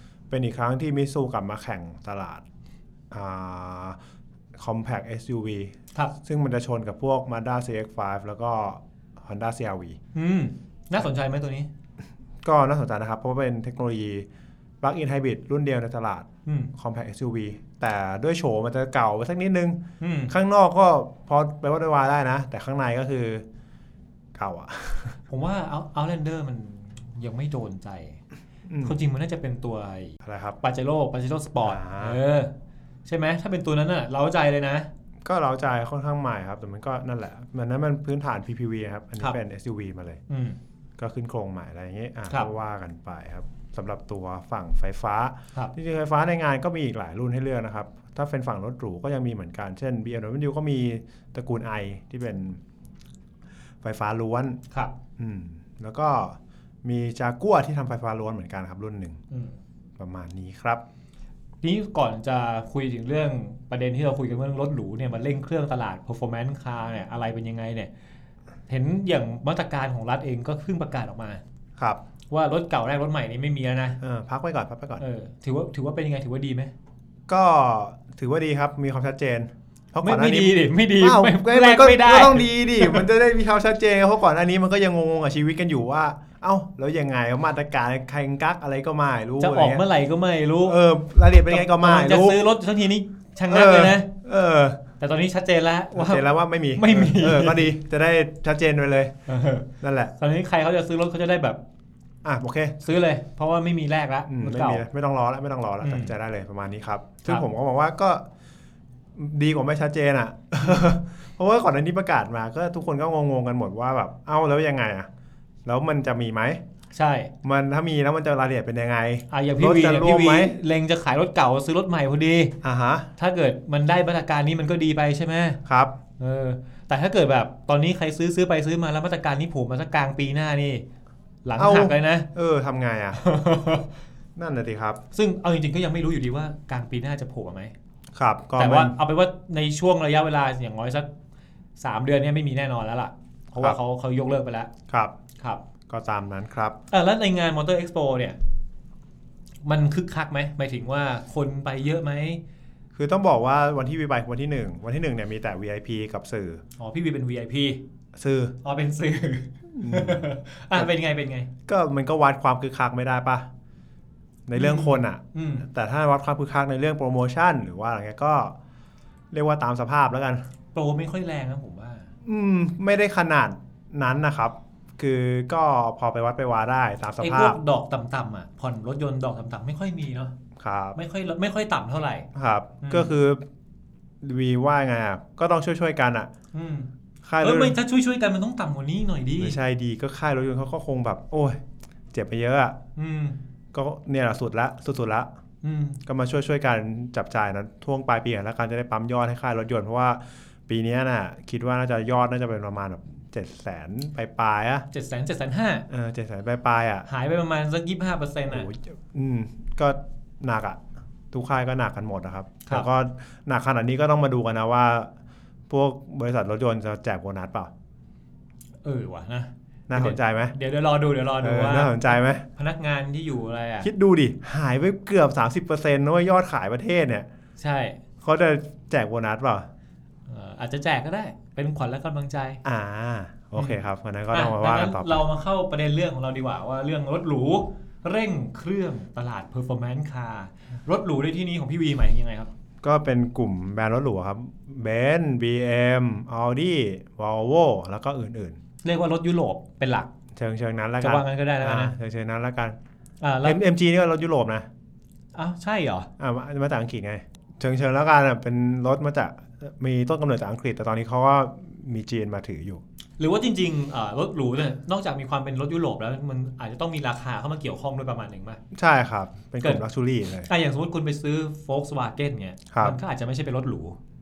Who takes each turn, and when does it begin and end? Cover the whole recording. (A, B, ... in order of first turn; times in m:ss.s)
0:00.3-0:02.4 A
0:03.1-0:04.0 A
0:04.6-0:10.0 A
0:10.1-0:11.7 B
0:12.4-0:14.3 A
0:14.8-0:23.4 A
0:16.5-0:16.7 B
0:20.0-0:20.3 B
0:24.4-0:25.2 A
0:25.3-0:28.2 B
0:28.7-0:29.0 A
0:28.8-0:32.5 B
0:30.2-0:30.6 A
0:31.6-0:32.2 A
0:33.1-0:34.9 B
0:35.2-0:40.2 A
0:40.3-0:40.6 B
0:41.0-0:52.6 A
0:53.8-0:54.6 A
0:55.2-0:59.2 A
1:00.0-1:00.8 A
1:01.6-1:07.9 B
1:08.7-1:11.4 B
1:12.3-1:14.0 B
1:14.0-1:15.0 A
1:15.0-1:16.7 B
1:17.3-1:29.8 A
1:20.0-1:23.0 B
1:29.4-1:30.8 B
1:30.6-1:32.4 A
1:31.5-1:34.1 B
1:33.5-1:34.8 A
1:35.0-1:37.7 B
1:36.0-1:39.2 A
1:39.3-1:41.6 B
1:39.8-1:40.1 A
1:42.2-1:42.9 A
1:42.8-1:44.8 B
1:44.3-1:48.3 A
1:45.8-1:46.1 B
1:49.2-1:55.1 A
1:55.6-1:56.6 A
1:56.9-1:57.3 B
1:57.4-2:00.6 A
1:59.3-2:02.5 B
2:02.6-2:03.1 A
2:03.2-2:05.6 B
2:05.6-2:06.0 A
2:06.2-2:10.8 B
2:11.4-2:12.3 B
2:11.6-2:13.2 A
2:13.2-2:13.9 B
2:14.4-2:15.0 A
2:15.1-2:17.7 B
2:18.1-2:19.0 A
2:18.6-2:21.1 B
2:21.8-2:24.7 B
2:24.9-2:25.2 A
2:25.9-2:26.8 A
2:26.9-2:28.4 B
2:29.6-2:32.4 B
2:32.9-2:36.6 A
2:36.8-2:37.8 B
2:38.2-2:38.6 A
2:38.6-2:41.5 B
2:39.8-2:40.9 A
2:41.7-2:43.5 A
2:44.5-2:48.6 A
2:44.6-2:45.7 B
2:49.3-2:50.5 A
2:50.7-2:52.1 B
2:52.2-2:57.6 A
2:57.2-3:00.3 B
3:00.6-3:01.0 A
3:01.0-3:02.3 B
3:02.3-3:03.4 A
3:02.8-3:03.1 B
3:04.2-3:06.3 A
3:06.5-3:06.9 B
3:07.2-3:07.8 A
3:07.4-3:09.6 B
3:09.4-3:11.6 A
3:12.1-3:12.8 A
3:13.0-3:13.4 B
3:13.7-3:15.3 A
3:15.6-3:16.0 B
3:16.1-3:24.9 A
3:24.9-3:25.9 B
3:25.9-3:27.1 A
3:27.1-3:28.7 B
3:28.5-3:30.8 A
3:31.3-3:35.1 A
3:35.7-3:37.7 A
3:38.8-3:43.9 B
3:39.9-3:40.6 A
3:41.4-3:42.4 A
3:43.8-3:47.3 A
3:47.6-3:48.0 B
3:48.2-3:49.7 A
3:50.3-3:52.6 B
3:52.6-3:55.2 A
3:54.3-4:02.5 B
4:02.8-4:08.6 A
4:08.8-4:10.1 B
4:10.4-4:12.8 A
4:11.0-4:12.0 B
4:13.2-4:13.6 B
4:13.4-4:14.7 A
4:15.4-4:16.1 B
4:16.2-4:22.8 A
4:23.2-4:28.6 B
4:28.7-4:30.5 A
4:30.4-4:34.0 B
4:32.7-4:33.0 A